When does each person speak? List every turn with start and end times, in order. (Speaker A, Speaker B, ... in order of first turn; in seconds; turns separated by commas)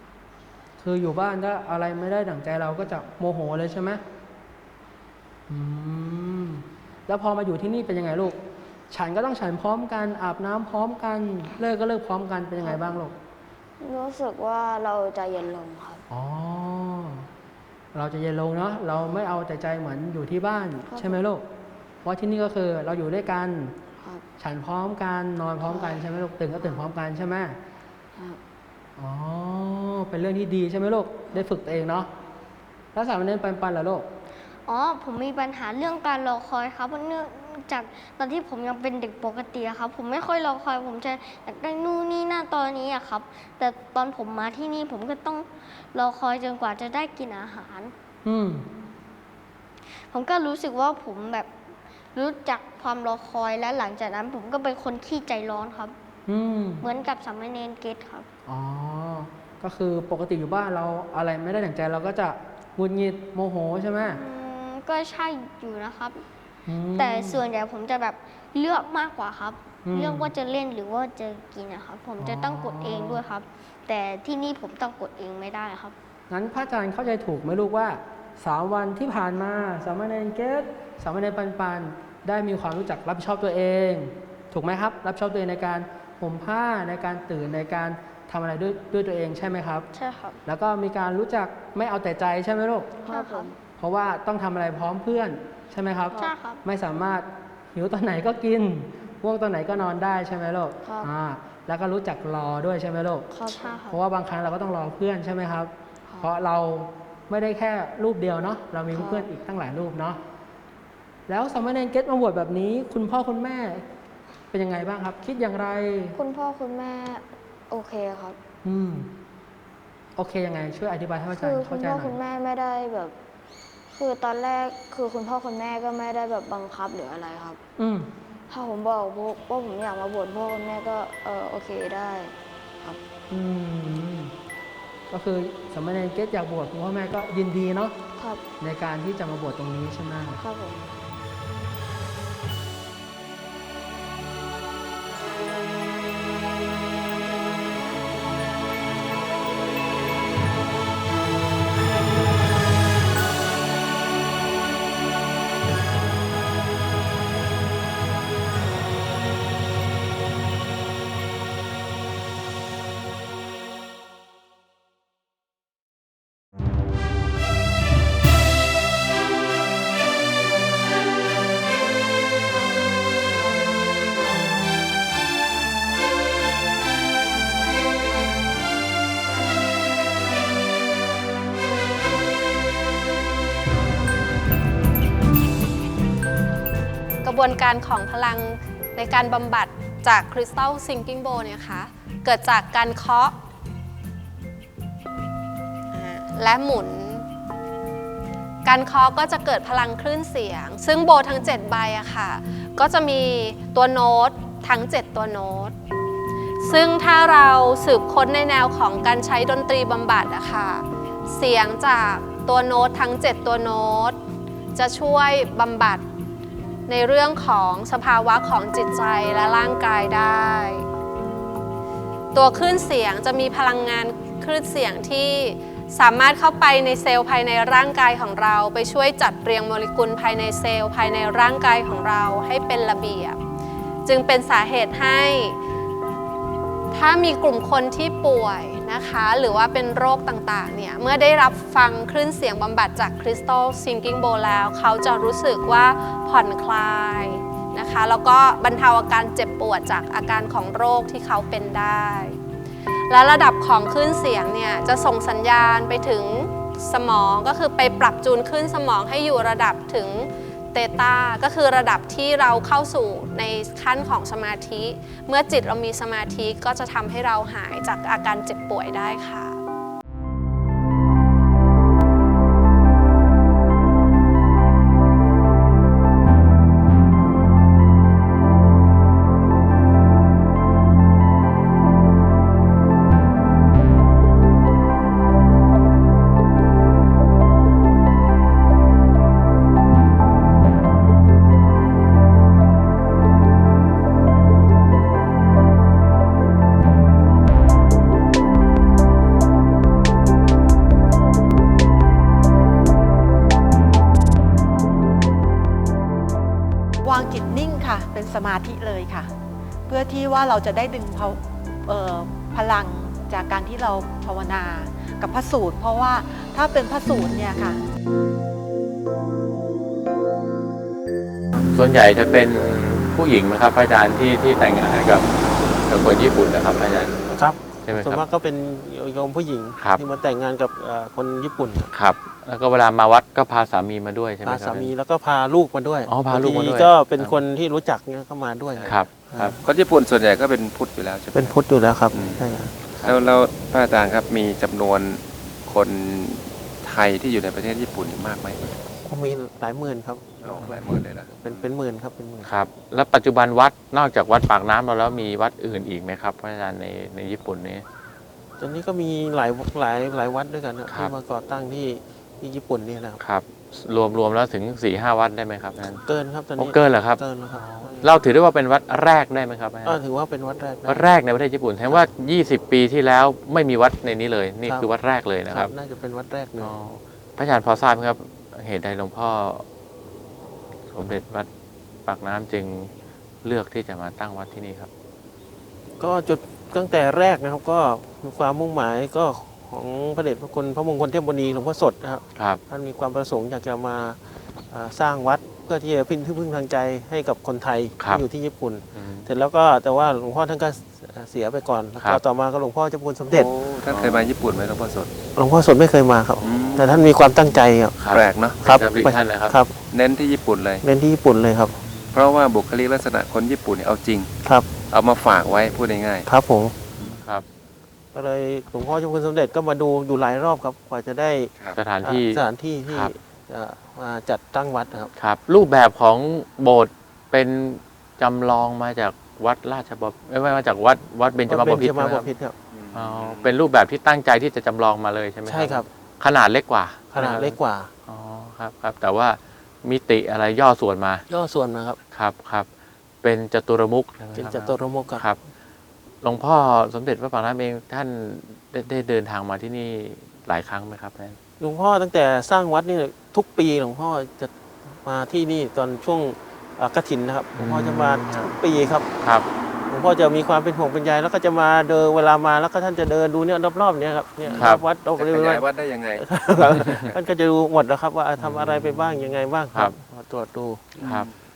Speaker A: 0.8-4.0, Speaker A: 5.5-8.4, Speaker A: 8.9-13.1, Speaker B: 12.6-12.9, Speaker B: 13.8-16.0, Speaker A: 16.1-17.3, Speaker A: 17.9-21.4, Speaker B: 20.9-21.2, Speaker A: 22.0-23.8, Speaker B: 24.0-24.2, Speaker A: 24.4-27.6, Speaker B: 25.6-26.1, Speaker A: 29.0-32.1, Speaker A: 32.9-34.0, Speaker C: 34.6-47.9, Speaker A: 48.2-48.6, Speaker C: 50.1-51.5, Speaker C: 52.1-55.9, Speaker A: 56.3-56.8, Speaker C: 56.8-58.3, Speaker A: 58.5-64.2, Speaker C: 64.0-66.2, Speaker A: 66.7-67.4, Speaker C: 66.9-75.9, Speaker A: 69.8-70.3, Speaker A: 72.2-73.2, Speaker A: 76.3-89.8, Speaker C: 89.9-90.4, Speaker A: 90.4-92.9, Speaker B: 93.0-93.6, Speaker C: 93.1-93.5, Speaker A: 93.8-103.3, Speaker C: 96.2-96.6, Speaker B: 100.8-101.1, Speaker B: 103.3-103.8, Speaker C: 103.5-104.0, Speaker A: 103.9-110.2, Speaker B: 106.1-106.3, Speaker B: 108.9-109.3, Speaker A: 111.3-113.8, Speaker A: 114.5-116.2, Speaker B: 116.2-118.4, Speaker A: 118.6-119.1, Speaker A: 120.2-122.2, Speaker B: 121.3-123.1, Speaker B: 123.9-127.6, Speaker A: 127.8-128.1, Speaker B: 128.5-133.0, Speaker A: 133.3-134.3, Speaker A: 135.1-137.9, Speaker B: 138.2-138.4, Speaker A: 138.6-140.4, Speaker B: 140.4-140.9, Speaker D: 187.2-193.3, Speaker D: 195.9-197.2, Speaker D: 198.7-205.7, Speaker D: 206.6-214.2, Speaker D: 214.8-216.0, Speaker D: 216.9-220.8, Speaker D: 222.3-233.4, Speaker D: 234.1-235.6, Speaker D: 236.9-252.3, Speaker D: 253.1-269.6, Speaker E: 307.0-309.3, Speaker E: 309.9-317.8, Speaker F: 321.6-327.1, Speaker G: 327.3-331.9, Speaker F: 327.8-328.2, Speaker F: 331.9-334.9, Speaker G: 334.4-339.6, Speaker F: 336.1-337.4, Speaker F: 338.8-339.6, Speaker H: 339.6-341.6, Speaker G: 341.3-342.8, Speaker H: 342.1-348.8, Speaker F: 343.0-343.3, Speaker G: 349.0-350.6, Speaker H: 350.4-351.7, Speaker F: 350.5-351.1, Speaker G: 351.2-352.5, Speaker F: 352.4-357.8, Speaker G: 358.6-363.2, Speaker F: 360.9-361.1, Speaker F: 363.2-366.0, Speaker G: 366.0-368.2, Speaker F: 366.6-370.0, Speaker G: 369.9-371.0, Speaker F: 370.9-375.7, Speaker G: 374.6-374.9, Speaker G: 375.5-376.7, Speaker F: 376.6-379.6, Speaker F: 380.9-381.5, Speaker F: 382.1-382.9, Speaker F: 383.4-384.9, Speaker G: 386.0-394.2, Speaker F: 392.3-392.6, Speaker G: 394.7-403.9, Speaker F: 398.0-398.2, Speaker F: 398.9-399.3, Speaker H: 403.2-405.1, Speaker F: 403.9-404.3, Speaker G: 405.4-408.1, Speaker F: 406.4-406.7, Speaker H: 406.4-407.2, Speaker F: 408.0-409.6, Speaker H: 408.1-408.7, Speaker G: 408.6-409.7, Speaker H: 409.9-410.9, Speaker G: 410.8-411.8, Speaker F: 411.9-412.2, Speaker H: 412.1-414.3, Speaker G: 414.4-414.7, Speaker H: 414.9-416.3, Speaker G: 416.2-416.7, Speaker F: 417.1-417.4, Speaker G: 418.1-425.1, Speaker F: 421.7-423.1, Speaker F: 425.1-432.3, Speaker G: 431.5-432.6, Speaker H: 432.7-433.6, Speaker F: 432.9-441.2, Speaker G: 435.4-435.9, Speaker G: 437.1-437.9, Speaker G: 441.3-442.0, Speaker F: 442.1-442.7, Speaker F: 443.2-445.4, Speaker G: 444.3-445.2, Speaker F: 446.2-451.4, Speaker G: 451.6-454.5, Speaker G: 455.0-459.1, Speaker F: 457.6-458.5, Speaker F: 459.2-459.5, Speaker G: 459.9-471.2, Speaker H: 464.5-466.2, Speaker F: 466.8-467.1, Speaker F: 468.4-469.2, Speaker F: 471.0-471.3, Speaker H: 471.0-471.3